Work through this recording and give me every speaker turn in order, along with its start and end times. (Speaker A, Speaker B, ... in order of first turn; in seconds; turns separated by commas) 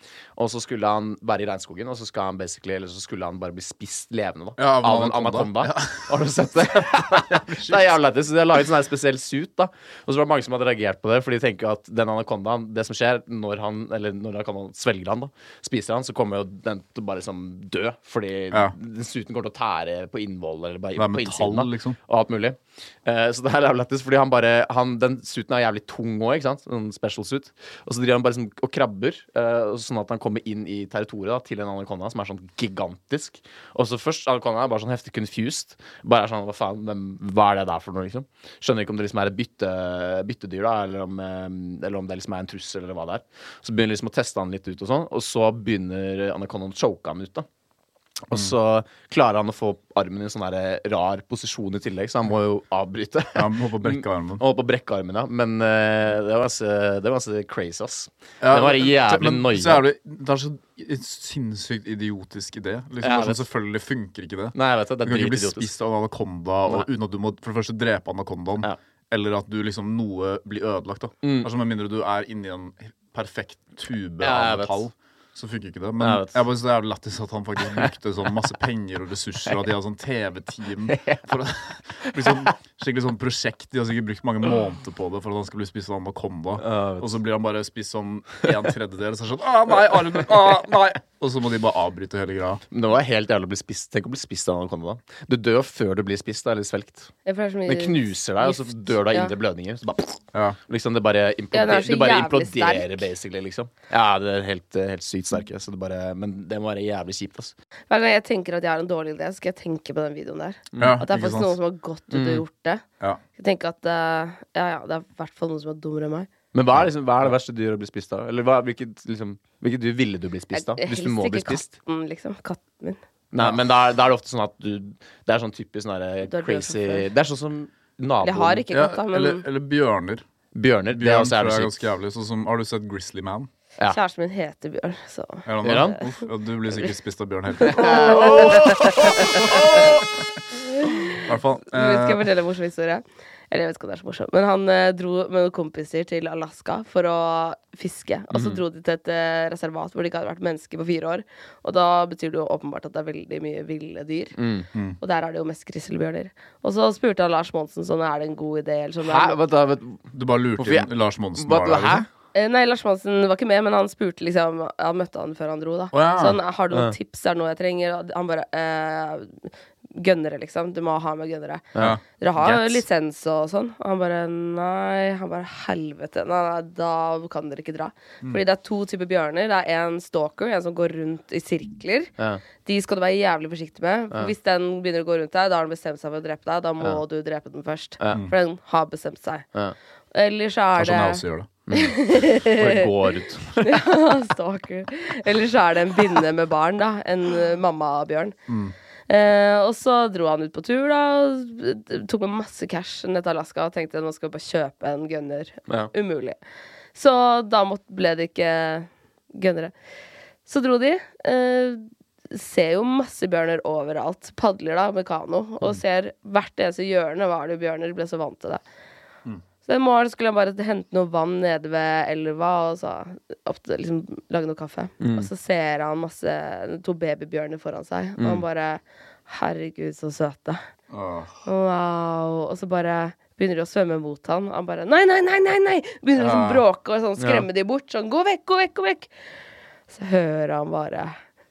Speaker A: 0.4-47.5, Speaker B: 4.6-8.0, Speaker B: 20.9-22.0, Speaker A: 48.3-59.8, Speaker B: 53.3-54.4, Speaker B: 58.4-92.6, Speaker A: 63.0-63.4, Speaker A: 64.5-65.7, Speaker A: 71.2-71.5, Speaker A: 74.2-74.8, Speaker A: 76.0-76.4, Speaker A: 80.8-81.3, Speaker A: 82.0-82.5, Speaker A: 86.6-87.2, Speaker A: 89.9-90.2, Speaker A: 92.7-97.1, Speaker C: 97.2-99.3, Speaker A: 97.7-107.5, Speaker B: 100.3-100.6, Speaker C: 101.5-103.0, Speaker C: 107.9-112.8, Speaker A: 110.7-111.0, Speaker B: 110.8-111.6, Speaker A: 112.1-112.4, Speaker C: 113.4-116.3, Speaker A: 116.5-121.7, Speaker C: 120.5-123.0, Speaker A: 123.3-128.6, Speaker C: 126.3-127.1, Speaker C: 128.2-129.4, Speaker B: 128.7-130.2, Speaker A: 130.5-131.8, Speaker B: 130.9-133.5, Speaker C: 133.9-135.8, Speaker B: 135.4-140.0, Speaker A: 135.6-136.0, Speaker C: 137.6-139.8, Speaker A: 137.6-140.0, Speaker C: 140.7-154.3, Speaker B: 141.1-142.3, Speaker A: 148.3-148.6, Speaker A: 154.3-154.7, Speaker B: 154.7-155.0, Speaker C: 155.0-159.4, Speaker A: 159.0-160.0, Speaker B: 160.1-162.1, Speaker A: 160.6-162.1, Speaker C: 162.3-182.1, Speaker B: 165.9-166.4, Speaker B: 171.8-172.8, Speaker C: 182.6-189.4, Speaker C: 190.1-192.9, Speaker B: 190.8-191.6, Speaker A: 191.7-193.8, Speaker C: 193.6-198.3, Speaker B: 198.5-198.7, Speaker C: 199.1-206.4, Speaker C: 206.9-209.7, Speaker C: 210.4-218.6, Speaker C: 219.6-230.6, Speaker A: 225.0-225.3, Speaker B: 230.9-231.4, Speaker C: 231.4-239.1, Speaker B: 236.2-236.6, Speaker A: 237.2-237.5, Speaker C: 239.9-241.1